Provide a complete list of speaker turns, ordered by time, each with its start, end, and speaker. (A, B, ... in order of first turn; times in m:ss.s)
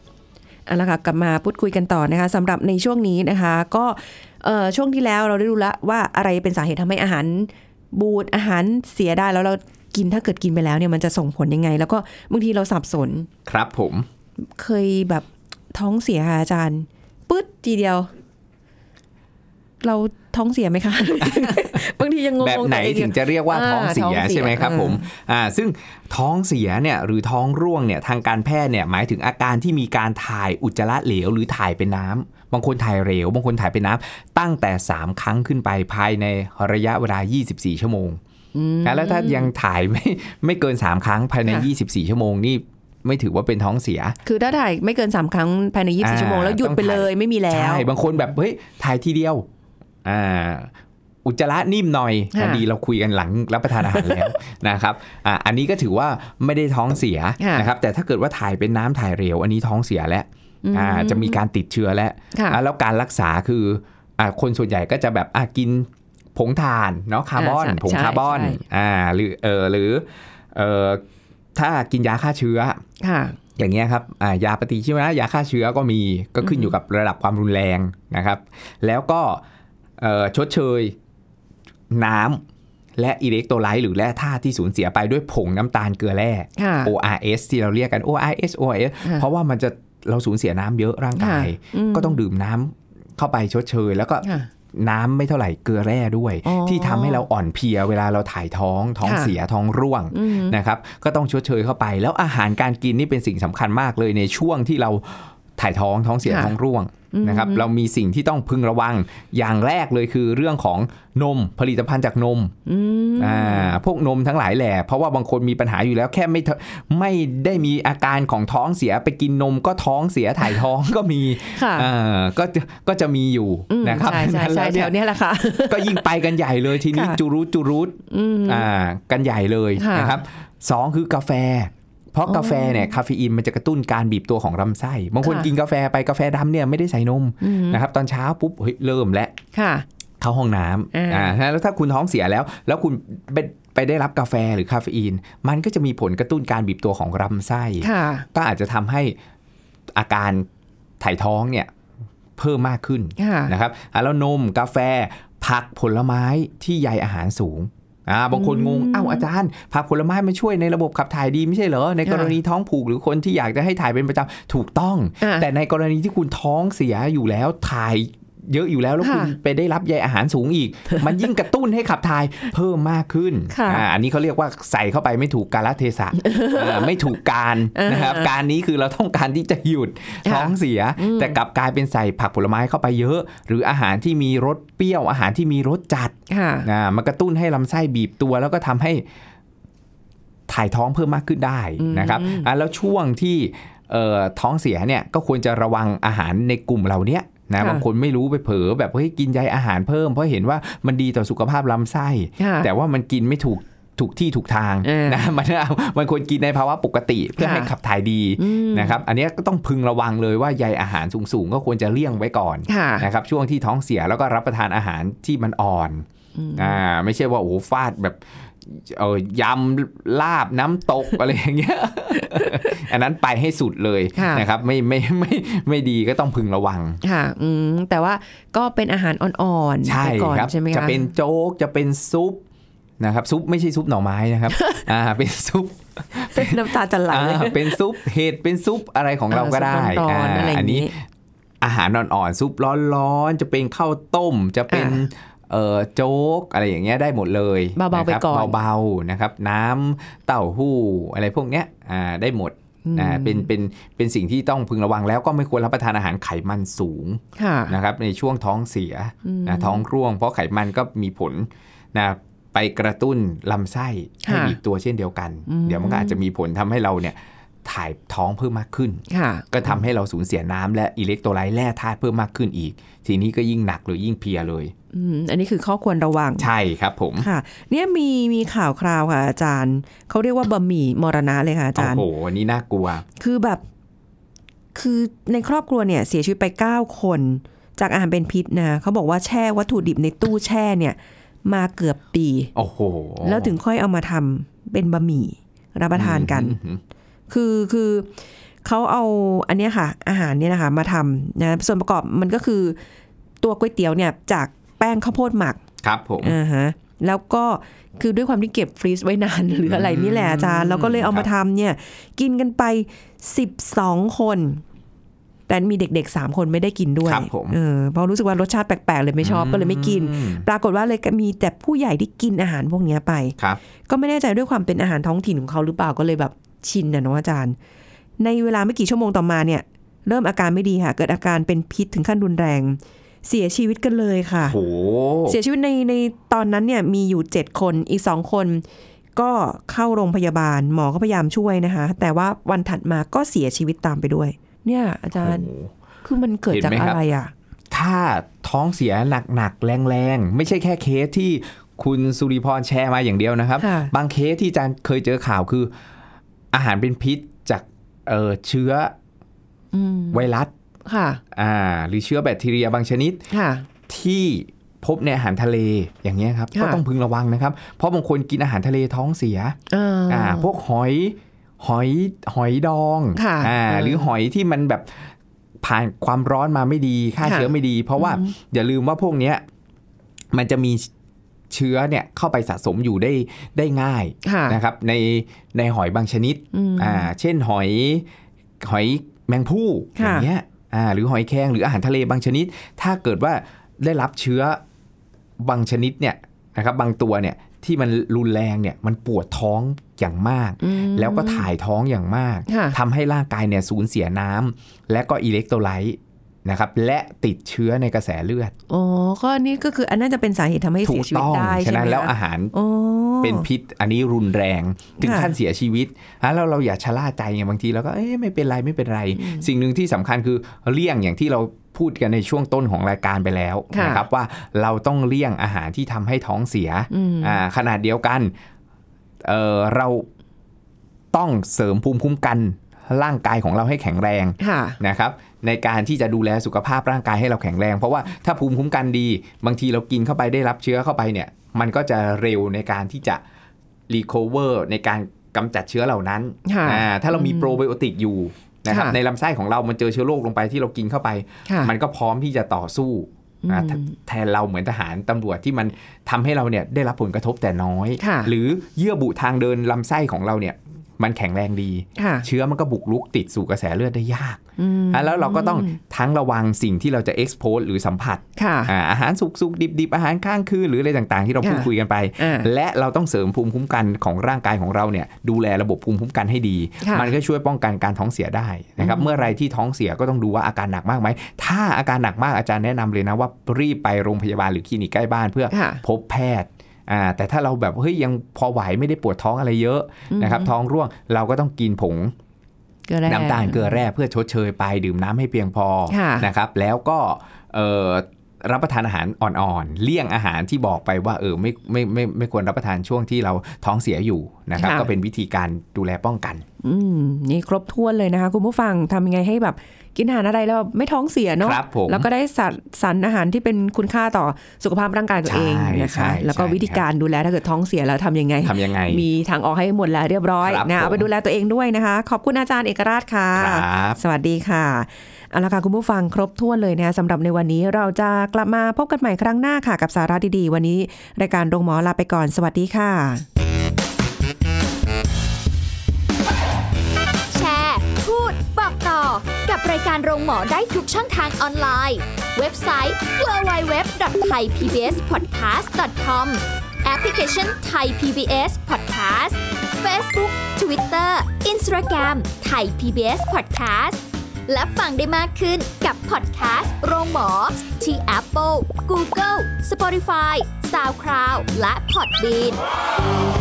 0:00.7-0:13.3 A
0:13.5-0:14.1 B
0:14.6-0:18.1 A
0:19.8-0:25.1 A
0:21.2-0:21.9 B
0:22.4-0:38.2 B
0:38.5-0:39.5 A
0:38.8-0:44.2 B
0:44.2-0:47.9 A
0:46.0-0:49.5 B
0:50.0-0:50.7 B
0:51.2-1:11.0 B
0:52.3-0:52.6 A
0:53.8-0:54.3 A
0:57.4-0:57.7 A
1:00.6-1:01.4 A
1:02.3-1:02.6 A
1:07.4-1:08.6 A
1:11.6-1:12.8 B
1:13.0-1:13.4 A
1:13.6-1:19.4 B
1:16.4-1:16.7 A
1:20.0-1:21.0 B
1:21.9-1:22.4 B
1:23.0-1:52.5 B
1:26.6-1:26.9 A
1:31.2-1:32.2 A
1:36.4-1:37.2 A
1:39.0-1:39.3 A
1:40.1-1:40.6 A
1:46.2-1:46.5 A
1:47.1-1:47.7 A
1:52.7-1:53.8 A
1:53.2-2:05.0 B
2:01.5-2:01.9 A
2:03.7-2:06.1 A
2:05.7-2:19.4 B
2:06.9-2:07.2 A
2:08.1-2:08.7 A
2:09.8-2:10.2 A
2:12.3-2:12.9 A
2:15.2-2:15.5 A
2:17.4-2:17.8 A
2:19.5-2:19.8 A
2:20.2-2:29.2 B
2:20.9-2:21.4 A
2:27.8-2:28.3 A
2:29.9-2:30.5 B
2:31.0-2:31.7 B
2:32.4-3:09.0 B
2:33.2-2:33.5 A
2:38.3-2:39.2 A
2:42.0-2:42.4 A
2:45.2-2:45.5 A
2:49.0-2:49.3 A
2:53.5-2:53.8 A
2:56.2-2:57.0 A
2:57.8-2:58.3 A
3:00.2-3:01.4 A
3:06.3-3:06.7 A
3:10.5-3:47.0 B
3:11.8-3:12.5 A
3:17.6-3:17.8 A
3:22.4-3:22.7 A
3:24.8-3:25.2 A
3:27.4-3:27.7 A
3:28.4-3:29.0 A
3:32.7-3:33.1 A
3:36.4-3:36.8 A
3:42.2-3:42.8 A
3:44.2-3:44.4 A
3:47.0-3:51.1 A
3:49.8-3:52.4 B
3:53.0-4:00.9 B
3:54.5-3:54.8 A
3:56.1-3:57.8 A
3:59.3-4:00.9 A
4:01.6-4:34.7 B
4:04.7-4:05.0 A
4:07.8-4:08.6 A
4:12.8-4:13.5 A
4:17.4-4:17.8 A
4:19.2-4:19.8 A
4:24.2-4:24.6 A
4:25.5-4:26.2 A
4:29.1-4:29.8 A
4:34.9-4:36.5 A
4:36.4-4:37.3 B
4:37.2-4:42.0 A
4:41.8-4:43.1 B
4:43.2-4:43.6 A
4:44.8-4:52.5 A
4:52.6-4:53.6 B
4:53.2-4:56.6 A
4:55.9-4:56.8 B
4:57.3-4:58.1 A
4:58.6-5:02.8 A
5:03.4-5:05.6 A
5:05.8-5:06.4 B
5:06.2-5:14.6 A
5:09.7-5:11.3 B
5:15.5-5:23.4 A
5:17.0-5:17.6 B
5:19.2-5:20.4 B
5:23.9-5:27.6 A
5:28.2-5:34.6 A
5:34.4-5:35.4 B
5:35.3-5:38.6 A
5:39.2-5:45.5 A
5:45.2-5:45.7 B
5:46.0-5:47.3 A
5:46.5-5:47.0 B
5:47.7-5:55.7 B
5:53.6-5:53.9 A
5:56.5-5:58.9 B
5:59.7-6:00.3 A
6:00.1-6:00.5 B
6:00.9-6:01.2 A
6:01.3-6:03.2 B
6:03.3-6:03.7 A
6:03.9-6:09.6 B
6:06.6-6:06.8 A
6:09.7-6:10.5 A
6:10.1-6:19.4 B
6:13.2-6:14.1 A
6:17.2-6:18.3 A
6:20.3-6:20.9 B
6:21.5-6:28.0 B
6:24.2-6:24.6 A
6:26.5-6:27.1 A
6:28.6-6:34.6 B
6:30.0-6:30.3 A
6:35.4-6:48.5 B
6:40.6-6:41.5 A
6:42.5-6:42.8 A
6:48.7-6:53.5 A
6:50.8-6:52.5 B
6:53.2-7:08.3 B
6:55.0-6:55.4 A
6:59.2-6:59.5 A
7:03.7-7:04.0 A
7:06.9-7:07.4 A
7:09.2-7:10.1 B
7:11.1-7:23.2 B
7:14.4-7:14.8 A
7:23.9-8:12.1 B
7:26.4-7:27.6 A
7:28.7-7:29.0 A
7:31.5-7:31.7 A
7:33.4-7:34.0 A
7:38.0-7:38.3 A
7:42.0-7:42.3 A
7:44.6-7:45.8 A
7:48.4-7:48.7 A
7:51.4-7:52.5 A
7:56.8-7:57.1 A
7:58.8-7:59.3 A
8:05.5-8:05.8 A
8:10.1-8:10.5 A
8:12.9-8:13.8 A
8:13.1-8:26.4 B
8:15.9-8:16.3 A
8:24.6-8:24.9 A
8:26.6-8:53.2 A
8:31.4-8:32.1 B
8:35.3-8:36.8 B
8:38.4-8:39.0 B
8:40.4-8:41.1 B
8:43.4-8:44.0 B
8:57.3-9:22.6 C